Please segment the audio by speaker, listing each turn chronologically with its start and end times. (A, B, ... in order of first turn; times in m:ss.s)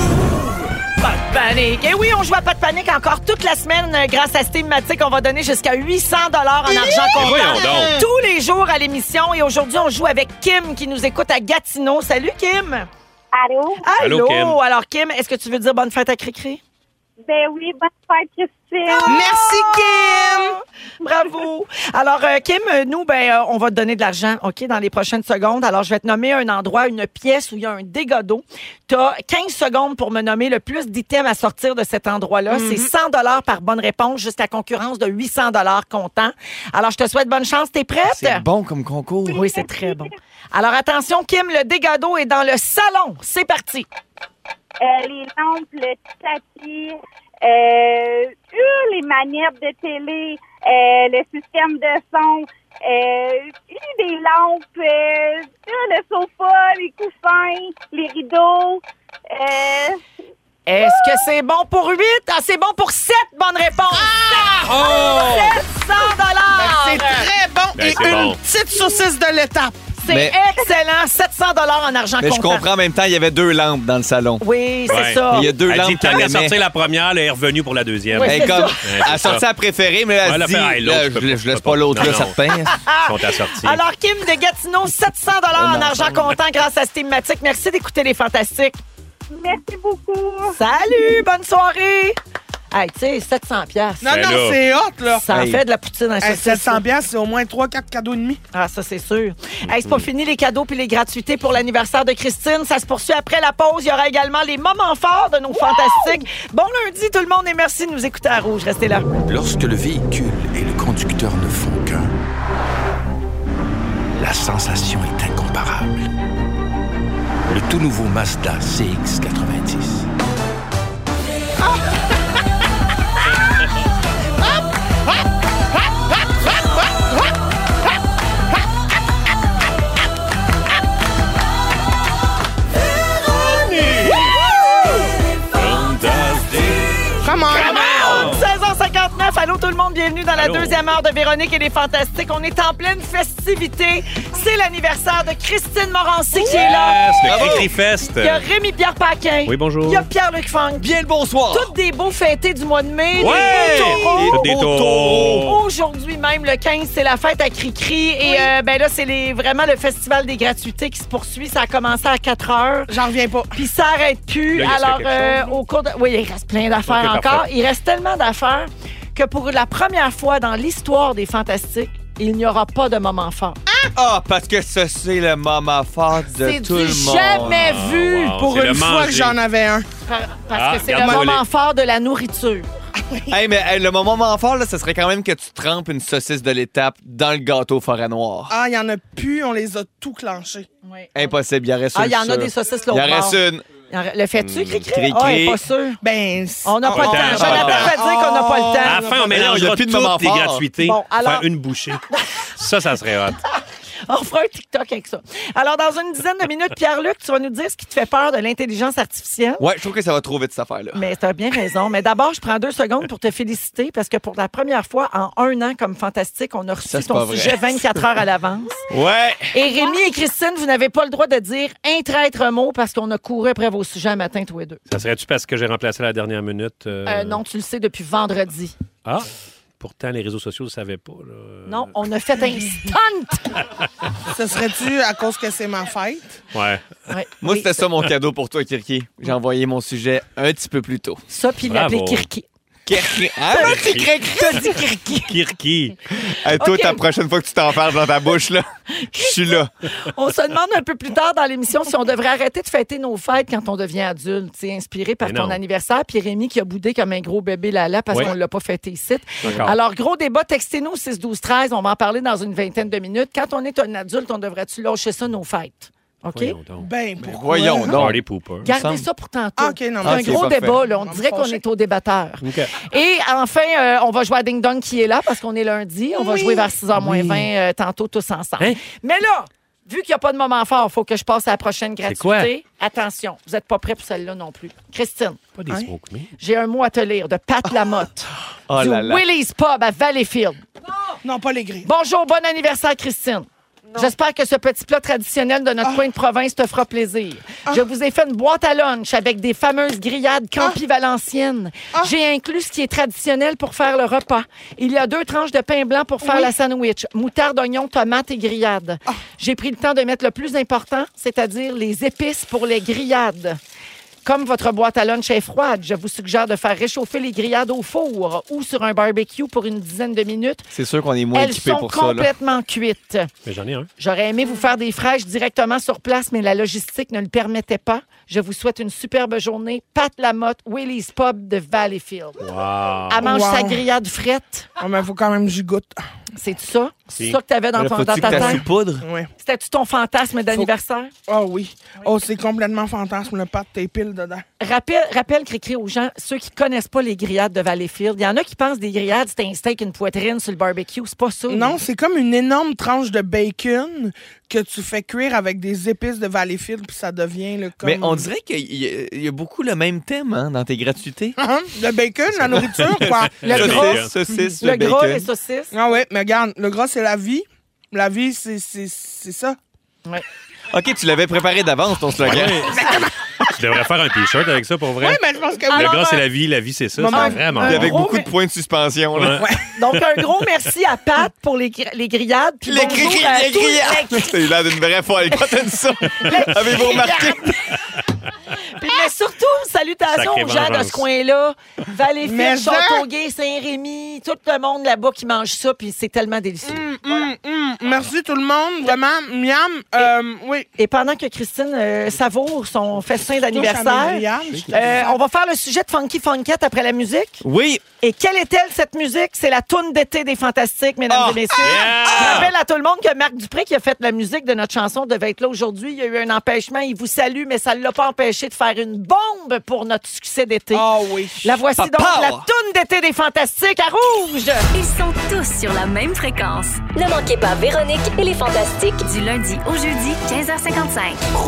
0:01.0-0:12.9 A
0:06.7-0:07.9 B
0:07.2-0:08.0 C
0:13.3-0:13.8 D
0:13.8-0:16.6 A
0:14.0-0:14.6 C
0:17.2-0:19.2 D
0:18.9-0:38.4 A
0:19.0-0:20.6 B
0:32.5-0:32.9 B
0:38.0-0:39.6 E
0:39.3-0:43.9 A
0:39.6-0:40.1 D
0:44.8-1:00.0 D
1:00.7-1:07.3 A
1:04.0-1:04.7 B
1:04.7-1:05.6 C
1:06.5-1:09.9 B
1:07.8-1:08.4 C
1:10.0-1:12.7 A
1:10.1-1:10.4 E
1:12.2-1:14.4 E
1:14.4-1:15.5 A
1:14.9-1:19.4 C
1:15.2-1:16.6 E
1:18.1-1:18.8 A
1:18.2-1:22.8 E
1:20.2-1:22.4 C
1:22.7-1:28.8 A
1:23.0-1:23.8 C
1:25.6-1:26.1 E
1:29.4-1:30.6 D
1:30.6-1:32.2 A
1:32.7-1:34.1 A
1:34.0-1:35.4 B
1:34.1-1:34.6 C
1:35.1-1:36.8 A
1:35.3-1:35.6 E
1:36.2-1:38.4 B
1:38.5-1:49.1 A
1:39.7-1:40.1 C
1:49.2-1:52.1 F
1:54.1-1:56.1 F
1:57.5-2:00.1 F
2:13.5-2:14.4 C
2:15.5-2:18.5 C
2:17.2-2:18.2 B
2:17.5-2:30.9 A
2:20.4-2:20.8 C
2:26.4-2:28.4 C
2:27.2-2:27.7 E
2:29.4-2:30.1 C
2:30.8-2:31.7 E
2:31.5-2:34.5 A
2:33.2-2:35.6 C
2:33.2-2:35.6 E
2:35.4-2:42.9 A
2:38.2-2:38.5 B
2:42.9-2:43.5 B
2:43.5-2:53.6 A
2:44.6-2:45.6 C
2:46.9-2:47.5 C
2:54.0-2:57.7 E
2:56.4-2:58.4 A
2:57.3-2:59.4 C
2:58.4-2:59.9 B
3:00.1-3:02.7 A
3:00.5-3:01.4 C
3:01.0-3:01.3 B
3:03.0-3:03.4 B
3:03.3-3:08.6 E
3:08.5-3:10.7 B
3:10.8-3:11.2 A
3:11.2-3:13.6 E
3:11.9-3:16.0 A
3:14.4-3:14.9 C
3:14.9-3:15.6 E
3:16.0-3:19.3 B
3:16.6-3:19.0 A
3:16.9-3:18.0 C
3:17.4-3:17.9 E
3:18.8-3:23.4 C
3:19.3-3:20.6 E
3:20.8-3:21.5 A
3:24.1-3:29.6 A
3:29.6-3:31.0 E
3:31.0-3:38.8 A
3:36.9-3:37.9 E
3:38.9-3:39.6 E
3:39.5-3:44.8 A
3:44.9-3:47.4 C
3:47.0-3:48.8 A
3:49.8-3:51.9 C
3:51.7-3:53.6 A
3:54.3-3:56.4 B
3:56.5-3:56.8 C
3:57.1-3:57.8 A
3:57.4-4:01.2 E
4:01.3-4:02.4 A
4:01.7-4:02.3 C
4:02.9-4:04.6 E
4:03.5-4:05.3 A
4:03.6-4:06.0 C
4:06.2-4:09.7 E
4:06.6-4:07.0 A
4:09.0-4:26.6 A
4:15.2-4:15.6 C
4:19.4-4:19.8 C
4:26.3-4:26.9 C
4:26.8-4:28.0 B
4:27.2-4:29.1 E
4:27.9-4:28.7 C
4:28.6-4:45.4 A
4:29.6-4:31.6 B
4:30.0-4:30.8 E
4:32.4-4:32.7 C
4:36.1-4:36.7 B
4:37.0-4:37.5 C
4:42.1-4:42.5 C
4:45.6-4:46.3 C
4:46.4-4:50.6 A
4:48.7-4:49.2 E
4:51.2-4:51.9 B
4:51.8-5:13.6 A
5:06.2-5:06.5 B
5:14.2-5:20.7 A
5:20.7-5:22.3 E
5:21.3-5:23.3 A
5:23.4-5:23.9 C
5:24.0-5:32.4 A
5:32.4-5:33.4 C
5:33.1-5:34.7 A
5:33.2-5:33.8 B
5:34.8-5:36.0 B
5:36.4-5:38.6 A
5:37.8-5:39.0 E
5:38.3-5:39.3 B
5:39.4-5:41.1 A
5:41.3-5:44.4 B
5:44.6-5:51.8 A
5:51.5-5:58.3 B
5:57.8-6:01.4 E
6:01.4-6:03.7 B
6:02.3-6:04.1 C
6:03.4-6:04.1 A
6:03.4-6:05.3 E
6:04.6-6:05.7 A
6:05.7-6:09.6 B
6:10.7-6:13.1 E
6:12.2-6:12.8 C
6:13.5-6:18.0 C
6:15.0-6:16.2 B
6:15.7-6:16.2 A
6:17.0-6:17.8 B
6:17.1-6:18.3 A
6:17.6-6:19.5 E
6:19.2-6:19.5 C
6:19.4-6:19.7 B
6:19.7-6:24.4 A
6:22.6-6:27.7 E
6:25.3-6:27.5 A
6:28.8-6:37.3 A
6:30.1-6:31.0 C
6:32.2-6:33.0 B
6:36.6-6:40.7 B
6:40.8-6:47.4 A
6:43.5-6:45.2 B
6:44.5-6:45.0 C
6:47.4-6:47.8 E
6:48.0-7:00.9 A
6:51.1-6:52.5 E
6:51.6-6:52.5 C
7:00.7-7:01.6 B
7:01.4-7:04.6 A
7:01.8-7:02.5 E
7:04.7-7:11.2 G